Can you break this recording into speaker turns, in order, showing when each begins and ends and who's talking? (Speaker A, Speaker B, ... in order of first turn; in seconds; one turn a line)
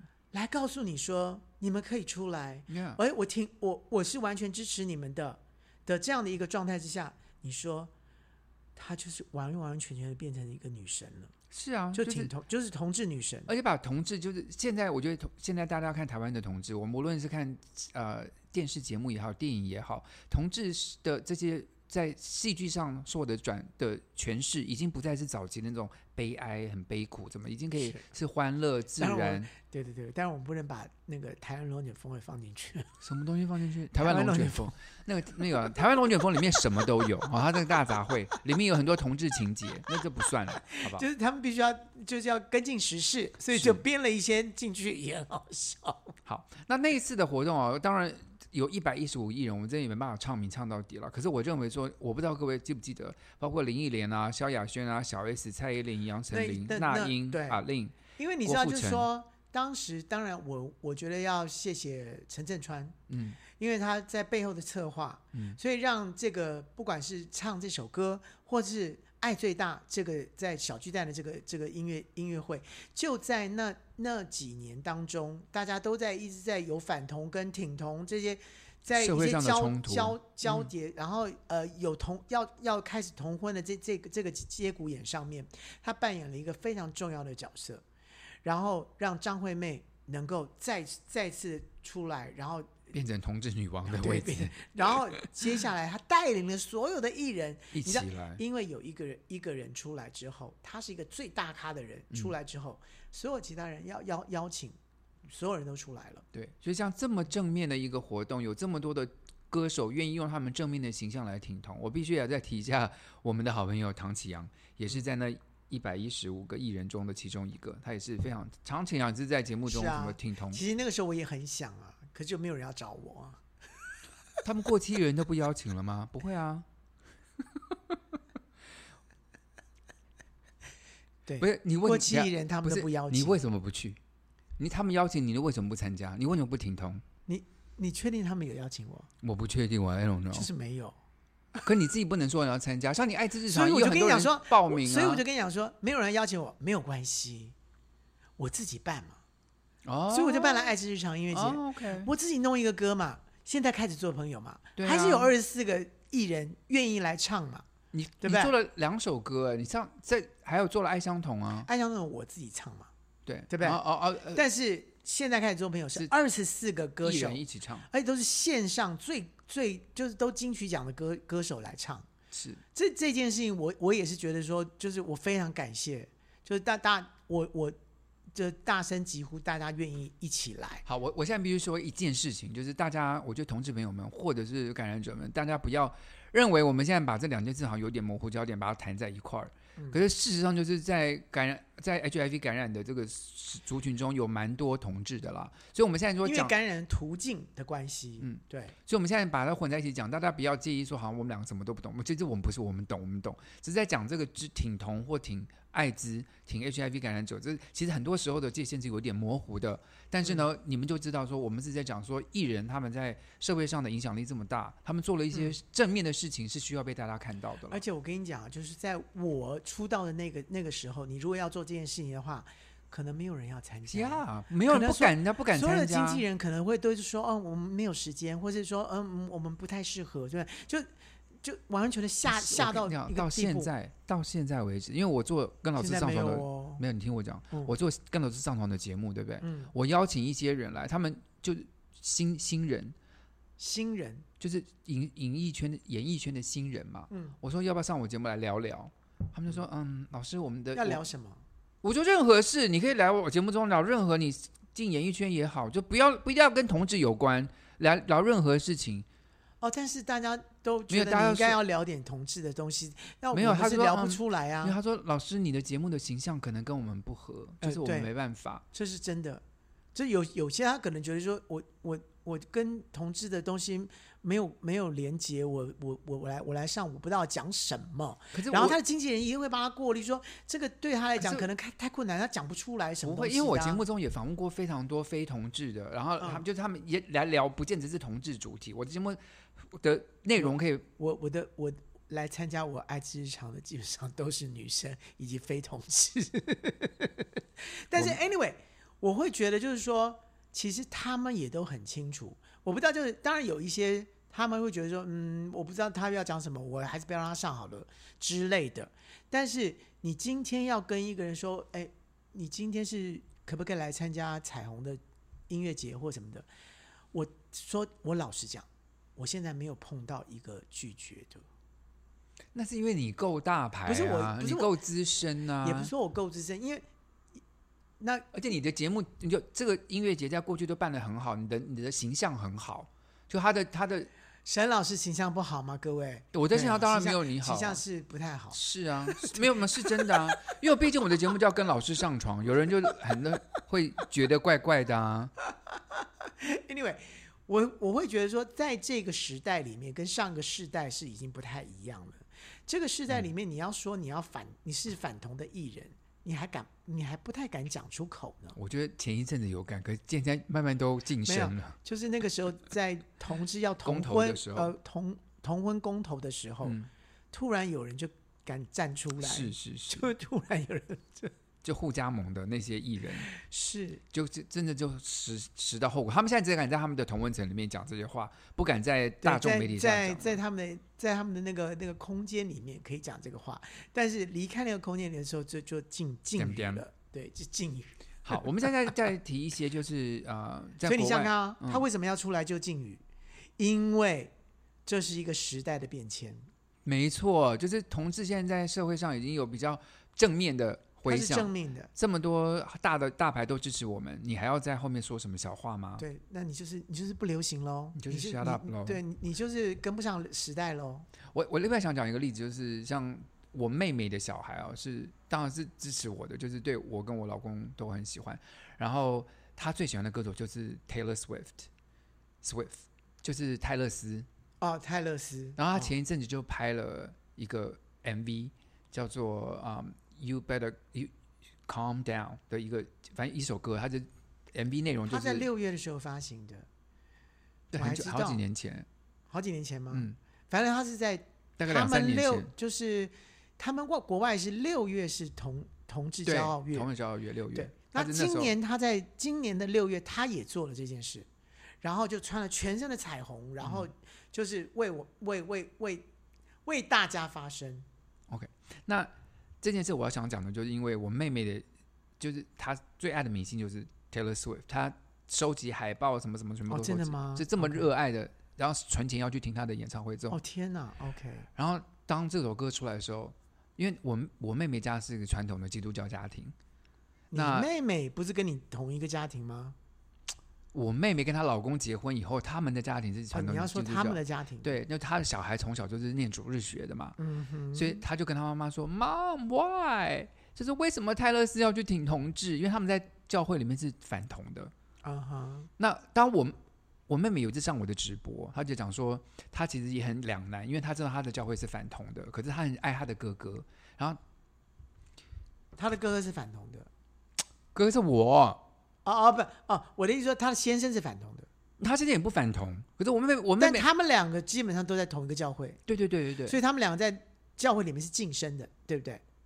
Speaker A: 0.3-7.9
Speaker B: 2.7-3.0
Speaker A: 8.8-11.3
Speaker B: 11.5-12.3
Speaker A: 11.9-13.5
Speaker B: 13.5-29.5
Speaker A: 27.8-28.0
Speaker A: 29.0-32.9
Speaker B: 33.0-41.1
Speaker A: 33.9-34.7
Speaker A: 40.6-46.1
Speaker B: 43.5-43.8
Speaker B: 46.2-59.1
Speaker A: 56.3-87.8
Speaker B: 63.1-63.4
Speaker B: 78.9-80.7
Speaker A: 88.4-92.9
Speaker B: 92.9-95.4
Speaker A: 93.9-106.2
Speaker B: 97.7-98.4
Speaker B: 106.3-120.6
Speaker A: 119.7-123.4
Speaker B: 124.4-126.7
Speaker A: 131.2-133.4
Speaker B: 131.4-134.0
Speaker B: 134.6-137.0
Speaker A: 137.3-139.1
Speaker B: 139.2-140.5
Speaker A: 140.3-141.0
Speaker B: 141.6-145.2
Speaker A: 143.5-147.5
Speaker A: 148.4-149.2
Speaker B: 149.9-150.8
Speaker A: 150.1-157.7
Speaker B: 151.3-152.1
Speaker B: 154.8-155.3
Speaker B: 157.9-161.7
Speaker A: 158.2-158.5
Speaker A: 161.7-162.9
Speaker B: 163.2-164.4
Speaker A: 163.5-172.1
Speaker B: 167.0-167.9
Speaker B: 172.3-172.6
Speaker A: 172.7-177.8
Speaker A: 178.3-180.8
Speaker B: 180.9-196.5
Speaker A: 196.2-198.8
Speaker B: 198.2-217.8
Speaker A: 217.7-230.9
Speaker B: 223.9-226.2
Speaker A: 231.4-233.7
Speaker B: 232.2-242.9
Speaker A: 235.8-236.8
Speaker A: 239.4-239.7
Speaker A: 243.6-244.2
Speaker B: 244.4-251.0
Speaker A: 247.1-247.4
Speaker A: 250.7-251.4
Speaker B: 251.8-259.1
Speaker A: 259.6-264.8
Speaker B: 260.9-261.6
Speaker B: 263.3-268.6
Speaker A: 267.6-268.1
Speaker A: 268.7-269.4
Speaker A: 269.9-283.8
Speaker B: 278.3-278.8
Speaker B: 281.2-281.5
Speaker B: 283.0-290.9
Speaker A: 286.2-286.4
Speaker A: 290.4-316.5
Speaker A: 317.1-321.4
Speaker B: 322.5-325.9
Speaker A: 323.9-324.8
Speaker A: 325.6-326.9
Speaker A: 328.0-328.2
Speaker B: 328.3-334.1
Speaker A: 334.4-338.6
Speaker B: 336.3-337.8
Speaker B: 338.5-345.3
Speaker A: 339.1-340.1
Speaker A: 346.4-358.6
Speaker B: 358.6-361.8
Speaker A: 361.2-366.8
Speaker B: 363.8-364.7
Speaker A: 367.3-371.3
Speaker B: 369.2-370.1
Speaker B: 371.6-373.3
Speaker A: 373.3-374.0
Speaker B: 374.1-380.4
Speaker A: 379.2-388.4
Speaker B: 386.4-386.8
Speaker B: 388.2-391.8
Speaker A: 390.8-393.0
Speaker A: 393.6-394.3
Speaker A: 394.9-396.5
Speaker B: 396.8-406.0
Speaker A: 401.1-401.9
Speaker A: 406.0-411.1
Speaker B: 407.9-409.0
Speaker B: 411.3-421.7
Speaker B: 422.4-424.3
Speaker A: 424.6-425.9
Speaker B: 425.6-431.1
Speaker B: 431.6-435.5
Speaker A: 435.1-436.7
Speaker B: 437.7-438.9
Speaker A: 437.8-438.4
Speaker A: 439.3-446.9
Speaker B: 439.9-440.2
Speaker B: 441.6-442.5
Speaker B: 446.2-448.6
Speaker A: 447.5-451.3
Speaker A: 451.8-456.1
Speaker B: 453.6-453.9
Speaker A: 456.6-457.9
Speaker B: 458.3-459.1
Speaker B: 459.6-461.6
Speaker B: 462.2-470.4
Speaker A: 466.7-467.9
Speaker A: 470.3-471.5
Speaker B: 471.6-476.6
Speaker A: 477.3-479.8
Speaker B: 477.3-477.7
Speaker B: 480.7-487.2
Speaker A: 483.3-484.7
Speaker A: 487.2-488.0
Speaker B: 487.7-494.7
Speaker A: 495.0-495.7
Speaker B: 495.8-504.2
Speaker A: 505.8-506.9
Speaker B: 507.7-508.6
Speaker A: 509.1-511.5
Speaker B: 511.8-513.9
Speaker A: 513.6-515.8
Speaker B: 515.9-516.6
Speaker A: 516.5-519.2